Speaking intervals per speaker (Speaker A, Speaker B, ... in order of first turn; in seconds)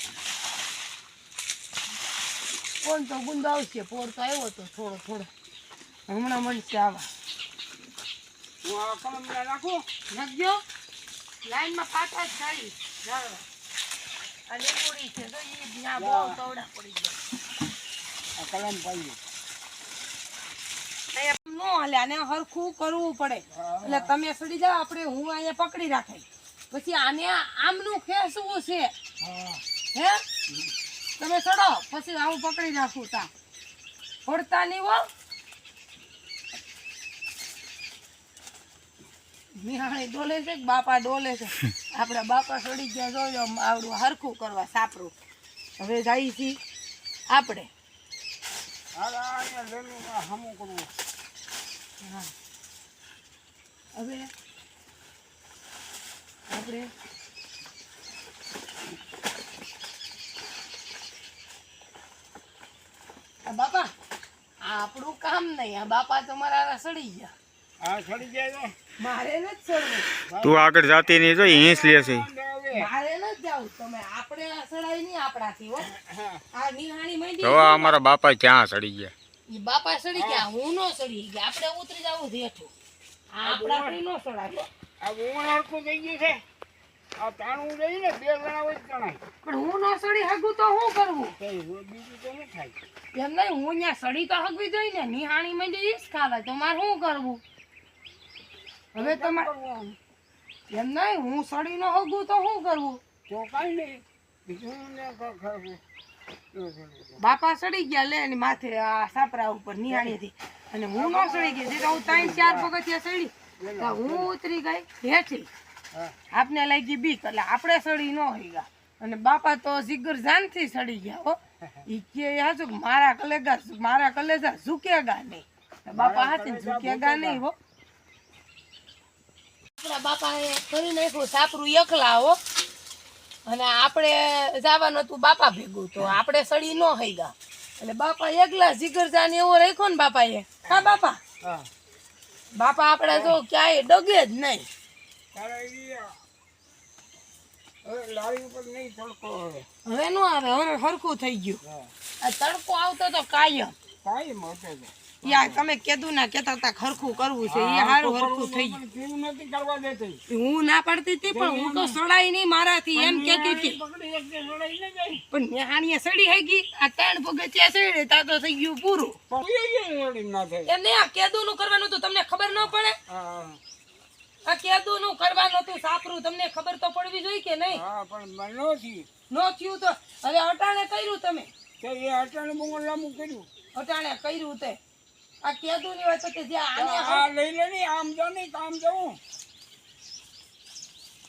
Speaker A: 2.8-5.3, 6.1-7.1, 10.1-10.6, 11.4-13.4, 14.5-17.1, 21.1-28.9, 29.9-30.2, 31.2-33.3, 34.2-35.1, 39.6-45.1, 45.8-46.6, 47.3-47.7, 52.0-52.3, 54.0-54.3, 56.5-56.9, 63.4-63.9, 64.6-67.3, 69.0-70.1, 72.7-75.9, 76.5-78.0, 79.5-82.7, 83.3-84.7, 89.4-91.3, 93.1-97.4, 98.9-99.5, 100.7-103.0, 107.2-115.5, 116.3-127.5, 129.8-132.4, 133.4-141.2, 142.5-144.7, 149.8-151.6, 152.2-153.7, 155.2-158.8, 160.3-163.8, 165.3-169.2, 170.7-173.0, 174.4-177.8, 179.3-181.5, 183.8-184.8, 185.4-187.3
Speaker B: 8.6-9.8, 16.0-16.4, 18.4-19.2, 23.5-24.1, 29.2-29.6, 49.0-50.9, 67.8-68.7, 70.3-72.9, 75.8-76.4, 80.1-80.5, 83.4-84.0, 85.0-86.4, 87.2-89.2, 91.4-92.7, 99.0-100.0, 103.3-105.8, 106.5-107.2, 109.9-110.2, 111.0-112.7, 113.6-114.3, 125.9-127.4, 140.7-141.7, 143.1-143.4, 145.3-146.1, 147.8-149.7, 151.6-151.9, 154.0-155.7, 157.4-160.2, 161.3-162.0, 162.9-165.2, 169.3-170.7, 173.1-173.6, 177.7-179.1, 181.8-183.5, 186.8-189.2
Speaker C: 70.4-72.3, 77.4-79.1